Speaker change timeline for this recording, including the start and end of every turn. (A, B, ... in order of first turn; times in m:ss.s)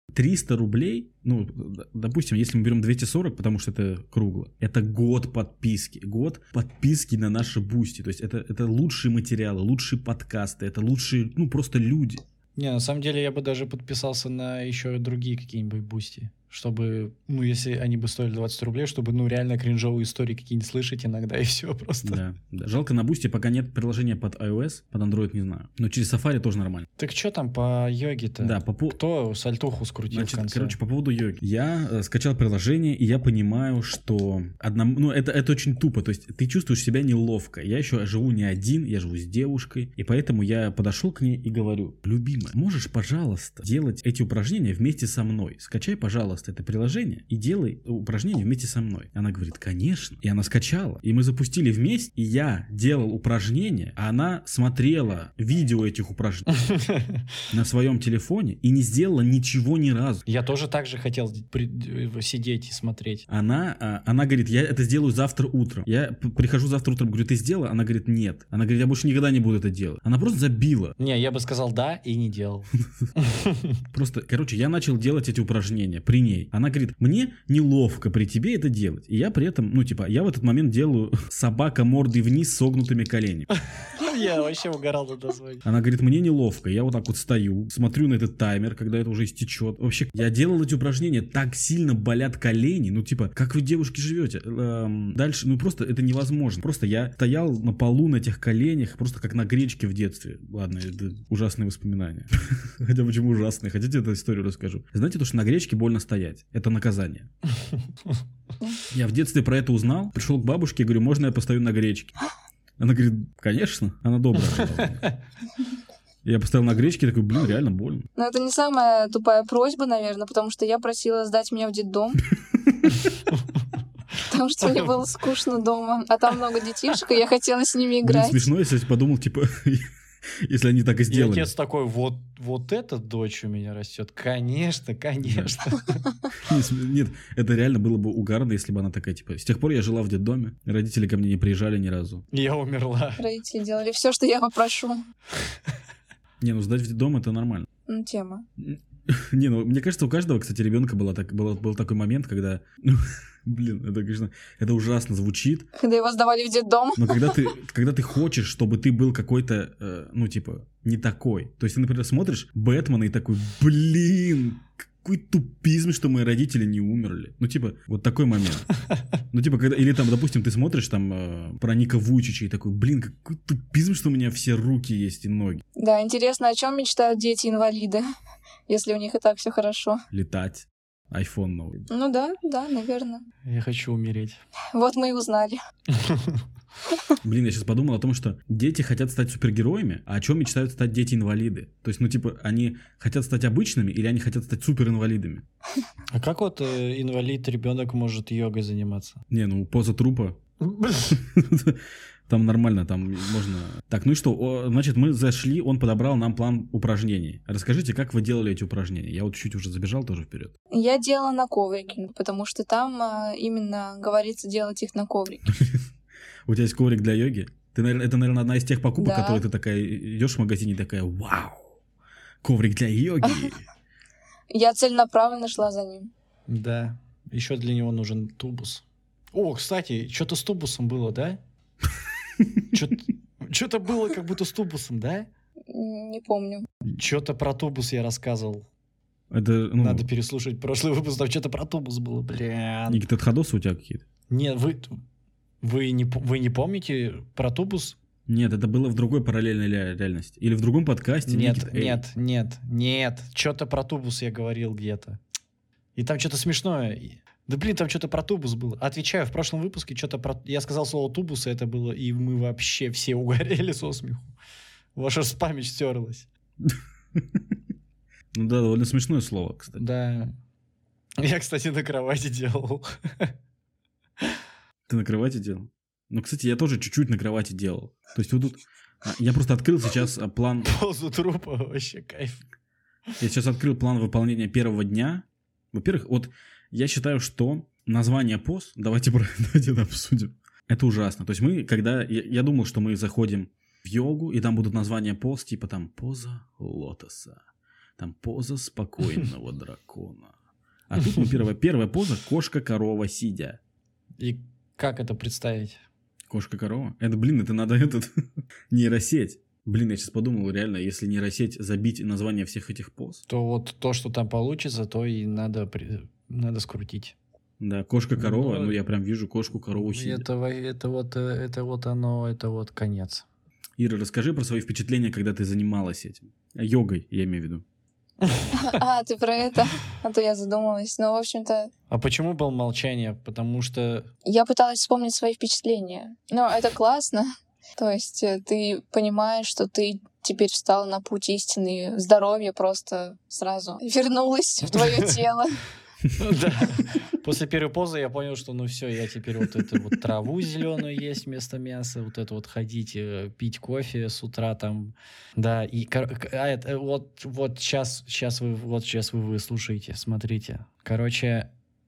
0:00.1-0:12.2 A
0:12.6-0:22.2 B
0:22.0-0:26.8 A
0:27.0-0:30.8 B
0:28.4-0:29.0 A
0:30.1-0:56.5 A
0:56.6-0:57.2 B
0:57.5-1:00.2 A
1:00.2-1:03.2 B
1:03.3-1:10.9 A
1:11.0-1:13.8 B
1:13.9-1:23.5 A
1:23.6-1:25.6 B
1:25.6-1:47.3 A
1:48.9-1:52.1 A
1:52.8-1:55.1 A
1:54.5-1:55.1 B
1:56.2-1:58.1 A
1:58.2-2:02.2 C
2:02.7-2:03.0 A
2:03.3-2:03.6 B
2:04.2-2:08.5 C
2:04.6-2:04.9 B
2:08.0-2:09.9 A
2:10.4-2:11.5 A
2:11.1-2:16.0 B
2:15.2-2:15.6 A
2:16.3-2:22.2 A
2:22.3-2:23.2 B
2:23.2-2:25.0 C
2:26.4-2:27.6 A
2:27.9-2:28.4 C
2:28.6-2:35.7 A
2:35.8-2:37.5 C
2:37.0-2:48.7 A
2:49.3-2:55.6 A
2:55.8-2:58.0 C
2:58.7-3:00.0 C
3:00.1-3:01.9 A
3:01.9-3:03.2 C
3:03.4-3:04.4 B
3:04.7-3:05.6 C
3:05.9-3:06.4 B
3:07.2-3:15.4 A
3:16.1-3:19.2 B
3:19.3-3:20.4 A
3:20.6-3:21.2 B
3:21.1-3:30.5 A
3:30.7-3:35.5 C
3:35.5-3:35.8 A
3:36.5-3:41.6 A
3:39.0-3:39.4 C
3:42.4-3:43.6 A
3:43.2-3:43.5 C
3:44.5-3:46.1 C
3:46.5-3:51.4 B
3:52.7-3:55.3 B
3:55.7-3:56.7 C
3:56.9-3:58.6 B
3:59.3-4:00.1 A
3:59.8-4:03.0 B
4:02.9-4:04.0 A
4:04.3-4:05.0 B
4:05.6-4:08.0 B
4:08.3-4:12.0 A
4:11.2-4:15.2 B
4:16.0-4:24.3 B
4:24.9-4:26.3 B
4:26.6-4:27.4 A
4:28.3-4:29.8 A
4:29.8-4:30.3 B
4:31.2-4:33.3 B
4:34.9-4:40.7 A
4:40.6-4:42.4 B
4:43.2-4:57.4 A
4:58.0-5:00.3 A
5:00.9-5:03.6 A
5:04.2-5:05.8 B
5:06.3-5:08.1 A
5:08.7-5:13.2 A
5:13.3-5:17.2 B
5:17.6-5:20.2 A
5:18.2-5:18.8 B
5:19.8-5:23.2 B
5:23.8-5:27.6 A
5:28.2-5:28.8 B
5:28.5-5:31.7 C
5:31.9-5:34.1 B
5:34.2-5:45.6 C
5:44.7-5:45.1 B
5:46.2-6:01.5 B